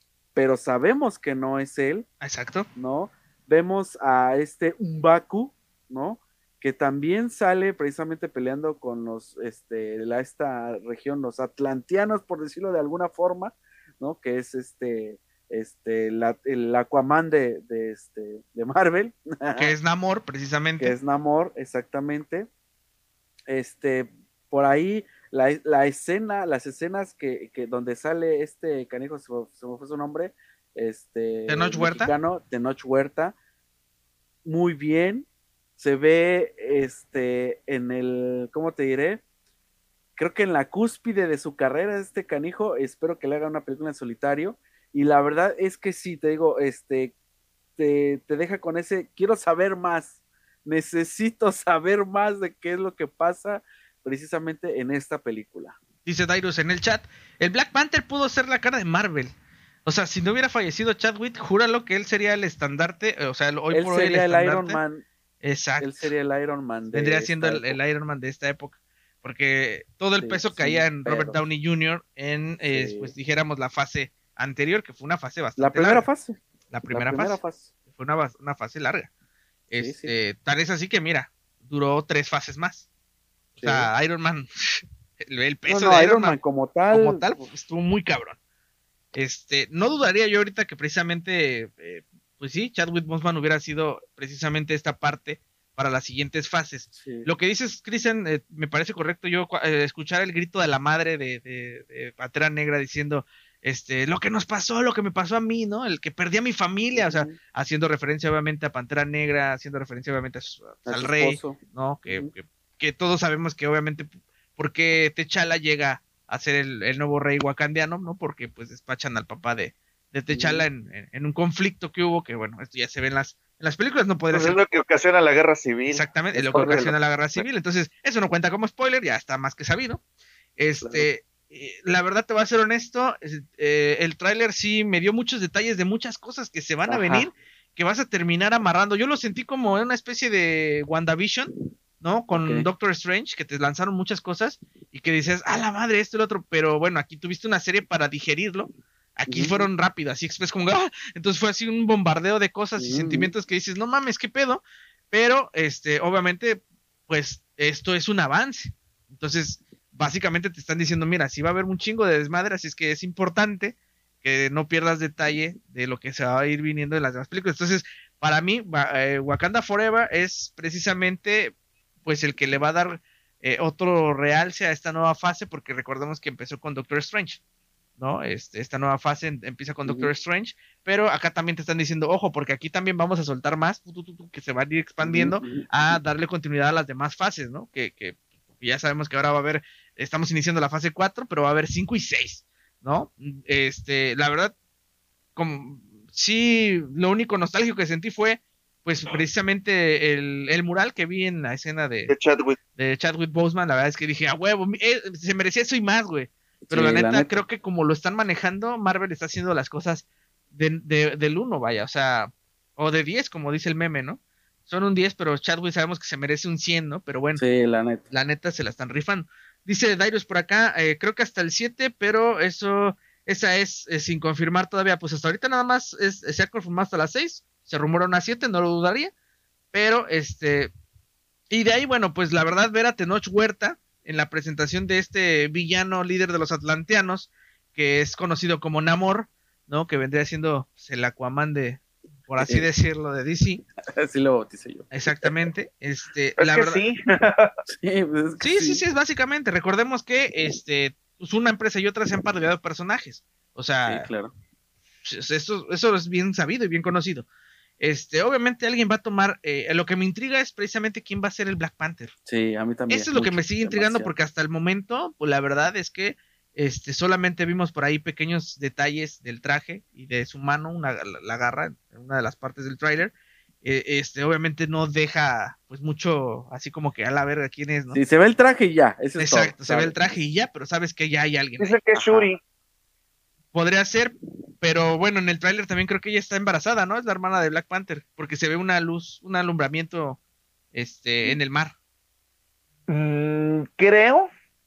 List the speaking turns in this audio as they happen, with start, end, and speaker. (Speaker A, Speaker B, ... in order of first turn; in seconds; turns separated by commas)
Speaker A: 0.3-2.0, Speaker B: 2.2-2.7, Speaker A: 2.7-19.7, Speaker B: 19.6-20.9, Speaker A: 20.8-22.5, Speaker A: 23.5-33.4, Speaker B: 31.5-32.1, Speaker A: 34.4-35.3, Speaker A: 35.8-39.2, Speaker A: 40.2-47.1, Speaker A: 47.8-55.8, Speaker B: 56.0-59.3, Speaker B: 59.8-64.8, Speaker A: 63.7-65.0, Speaker B: 65.4-66.1, Speaker A: 65.8-67.8, Speaker B: 66.9-76.1, Speaker A: 70.2-71.4, Speaker A: 72.6-73.1, Speaker A: 75.6-76.4, Speaker B: 76.7-77.4, Speaker A: 76.9-77.7, Speaker B: 77.9-79.1, Speaker B: 79.7-82.9, Speaker A: 79.7-80.1, Speaker A: 83.6-83.9, Speaker B: 83.6-86.4, Speaker A: 85.7-87.3, Speaker B: 86.9-88.4, Speaker B: 89.1-124.6, Speaker A: 96.9-97.3, Speaker A: 106.9-107.4, Speaker A: 110.8-111.6, Speaker A: 120.3-120.7, Speaker C: 124.3-126.9, Speaker B: 125.9-130.0, Speaker A: 126.4-126.7, Speaker B: 130.6-177.4, Speaker A: 130.8-131.1, Speaker A: 136.8-137.3, Speaker A: 142.3-142.7, Speaker A: 149.3-149.7, Speaker A: 152.8-153.3, Speaker B: 178.0-194.5, Speaker A: 179.8-180.1, Speaker A: 185.0-186.0, Speaker B: 195.3-202.1, Speaker C: 202.1-202.6, Speaker B: 202.8-217.4, Speaker A: 206.7-207.4, Speaker A: 217.4-218.0, Speaker B: 218.1-229.1, Speaker B: 229.7-230.7, Speaker B: 231.5-243.6, Speaker A: 242.4-242.7, Speaker A: 243.9-245.4, Speaker B: 244.9-246.8, Speaker C: 246.4-247.5, Speaker A: 247.7-248.8, Speaker B: 248.4-254.1, Speaker A: 253.8-254.3, Speaker B: 255.0-257.2, Speaker B: 257.8-262.1, Speaker A: 262.3-264.1, Speaker B: 262.9-278.0, Speaker A: 277.9-280.0, Speaker B: 279.2-281.7, Speaker C: 281.6-282.4, Speaker A: 281.9-282.3, Speaker B: 283.5-290.2, Speaker B: 290.7-291.7, Speaker C: 292.9-294.3